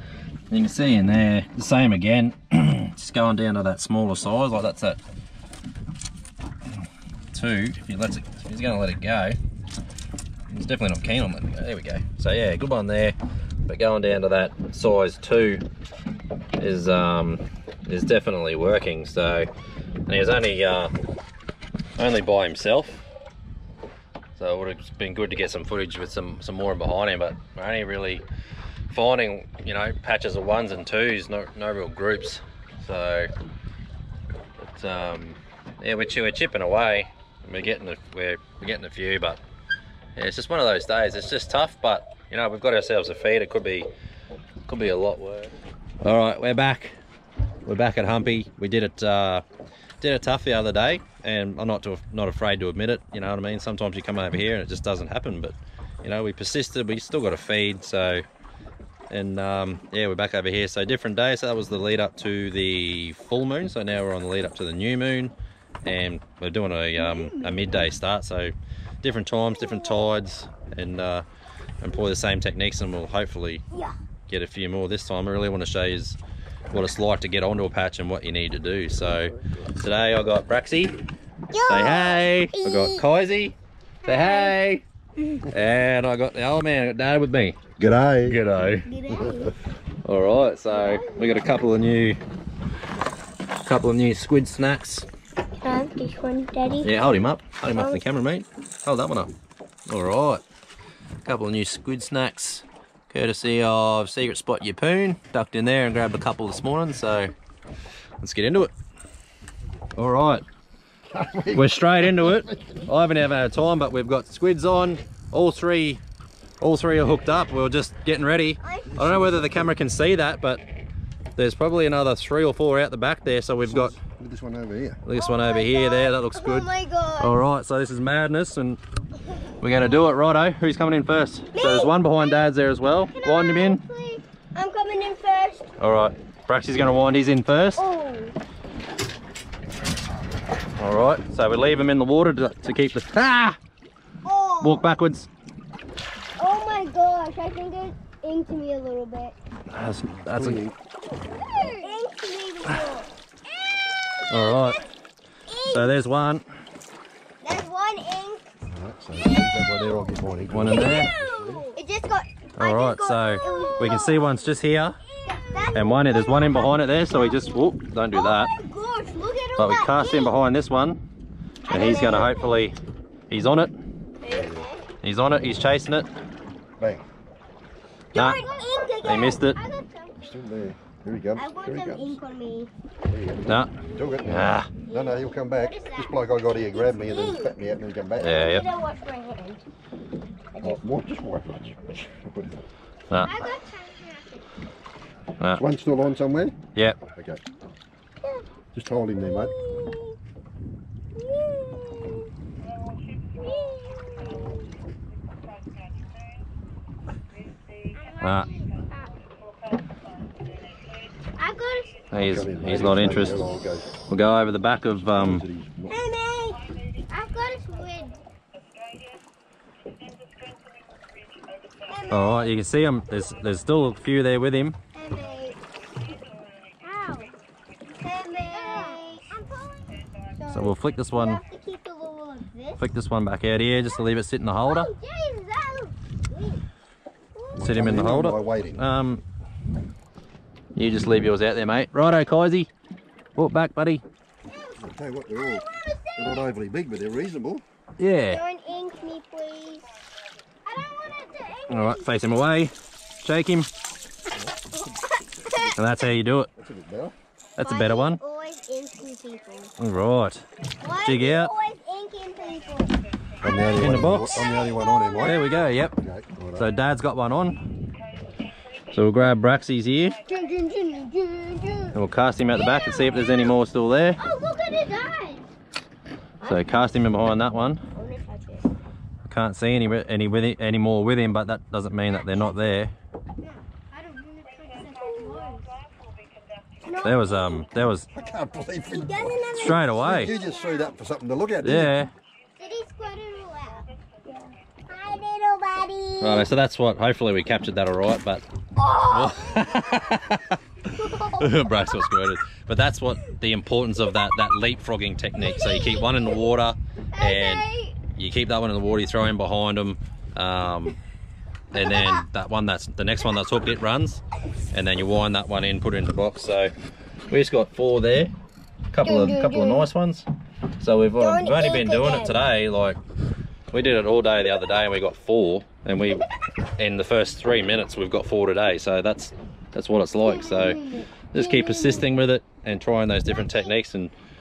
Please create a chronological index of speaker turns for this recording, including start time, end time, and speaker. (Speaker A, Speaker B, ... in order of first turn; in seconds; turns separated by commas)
Speaker A: 0.5-5.0, Speaker A: 7.3-9.4, Speaker A: 10.5-13.2, Speaker A: 13.7-15.7, Speaker A: 16.6-19.5, Speaker A: 20.1-20.9, Speaker A: 22.0-23.1, Speaker A: 24.4-28.2, Speaker A: 28.9-33.3, Speaker A: 34.6-39.4, Speaker A: 40.2-43.9, Speaker A: 44.7-47.0, Speaker A: 47.6-49.4, Speaker A: 50.0-58.2, Speaker A: 59.1-71.2, Speaker B: 67.0-67.9, Speaker A: 71.8-73.6, Speaker A: 74.3-76.2, Speaker A: 76.7-81.0, Speaker B: 81.5-83.0, Speaker A: 81.7-84.8, Speaker B: 84.0-84.6, Speaker A: 85.5-87.6, Speaker C: 87.8-88.4, Speaker A: 88.3-88.9, Speaker B: 88.8-89.5, Speaker C: 89.1-89.5, Speaker A: 90.0-92.2, Speaker B: 90.7-91.4, Speaker A: 93.7-95.1, Speaker B: 95.6-96.9, Speaker A: 96.8-99.3, Speaker B: 97.7-98.0, Speaker A: 99.9-100.4, Speaker A: 101.2-107.3, Speaker A: 108.2-108.7, Speaker A: 110.0-110.4, Speaker C: 111.1-112.8, Speaker A: 111.5-116.0, Speaker A: 116.6-120.6, Speaker B: 118.6-118.9, Speaker C: 118.9-119.7, Speaker A: 121.4-124.0, Speaker C: 123.7-125.0, Speaker A: 125.0-128.8, Speaker B: 125.1-127.4, Speaker A: 129.6-133.8, Speaker B: 129.7-130.0, Speaker B: 131.5-132.5, Speaker B: 133.1-135.7, Speaker A: 135.8-137.8, Speaker B: 137.8-138.3, Speaker A: 140.8-143.6, Speaker B: 144.2-144.9, Speaker A: 144.6-145.3, Speaker B: 146.4-149.4, Speaker A: 149.7-150.6, Speaker C: 150.2-150.8, Speaker B: 151.4-153.1, Speaker B: 153.7-154.8, Speaker A: 154.3-154.8, Speaker B: 155.5-156.0, Speaker A: 155.6-156.5, Speaker B: 157.4-158.5, Speaker C: 158.7-161.8, Speaker A: 160.5-161.1, Speaker B: 160.7-164.5, Speaker A: 162.6-165.0, Speaker B: 165.1-170.4, Speaker A: 165.7-168.5, Speaker A: 169.6-171.0, Speaker B: 171.7-172.7, Speaker A: 171.7-172.8, Speaker A: 173.3-173.7, Speaker B: 174.2-174.9, Speaker C: 174.3-174.7, Speaker A: 175.0-176.1, Speaker C: 176.8-177.1, Speaker A: 178.1-178.4, Speaker B: 178.1-180.4, Speaker A: 179.0-179.6, Speaker C: 180.2-182.2, Speaker B: 181.4-182.7, Speaker C: 183.1-188.6, Speaker B: 183.8-187.5, Speaker A: 184.2-184.7, Speaker A: 188.2-188.7, Speaker B: 188.2-189.6, Speaker C: 190.6-192.6, Speaker A: 193.1-193.4, Speaker B: 193.2-194.5, Speaker C: 195.6-196.6, Speaker C: 197.1-197.4, Speaker C: 198.7-199.6, Speaker B: 199.3-200.2, Speaker B: 201.2-202.3, Speaker B: 203.4-204.7, Speaker B: 207.9-209.1, Speaker A: 208.2-208.5, Speaker B: 211.4-212.0, Speaker A: 212.1-213.5, Speaker C: 212.2-213.9, Speaker A: 214.1-215.4, Speaker C: 215.0-216.0, Speaker B: 215.9-218.2, Speaker B: 221.9-222.5, Speaker A: 222.1-224.8, Speaker B: 224.9-225.6, Speaker B: 226.8-227.3, Speaker B: 228.0-232.8, Speaker A: 230.5-231.4, Speaker A: 232.8-234.9, Speaker B: 234.6-236.6, Speaker B: 237.3-237.8, Speaker C: 237.6-238.9, Speaker A: 237.6-239.2, Speaker A: 240.8-242.7, Speaker A: 243.4-244.0, Speaker B: 244.5-244.8, Speaker C: 244.8-247.6, Speaker B: 245.3-246.5, Speaker A: 248.0-248.4, Speaker B: 248.3-249.9, Speaker B: 250.7-252.1, Speaker A: 251.7-253.7, Speaker C: 254.3-254.8, Speaker B: 254.8-255.7, Speaker C: 255.5-255.7, Speaker A: 255.8-256.5, Speaker C: 256.6-257.1, Speaker A: 257.6-258.2, Speaker B: 257.6-259.7, Speaker A: 259.8-260.5, Speaker B: 260.8-263.0, Speaker A: 261.0-261.5, Speaker C: 263.4-266.7, Speaker B: 263.5-265.7, Speaker A: 263.8-264.5, Speaker A: 265.2-266.0, Speaker A: 266.6-267.6, Speaker A: 268.9-270.2, Speaker B: 270.3-272.0, Speaker A: 271.9-274.2, Speaker B: 272.5-273.5, Speaker B: 274.2-275.5, Speaker A: 276.4-277.8, Speaker B: 277.9-278.7, Speaker A: 279.2-282.9, Speaker B: 283.4-285.7, Speaker B: 286.8-287.7, Speaker A: 287.0-288.1, Speaker C: 288.1-292.0, Speaker B: 288.9-290.9, Speaker A: 289.5-290.3, Speaker A: 291.6-292.1, Speaker B: 292.6-296.5, Speaker A: 296.2-298.4, Speaker B: 298.8-300.2, Speaker A: 299.0-300.5, Speaker B: 300.9-302.1, Speaker A: 301.3-311.0, Speaker B: 305.4-306.5, Speaker B: 307.1-308.0, Speaker A: 311.7-316.7, Speaker B: 311.8-312.2, Speaker A: 317.3-318.3, Speaker A: 318.9-320.3, Speaker B: 319.1-319.9, Speaker A: 320.8-323.0, Speaker B: 321.2-322.5, Speaker A: 323.7-326.2, Speaker A: 326.8-334.1, Speaker B: 330.2-332.1, Speaker B: 333.4-333.7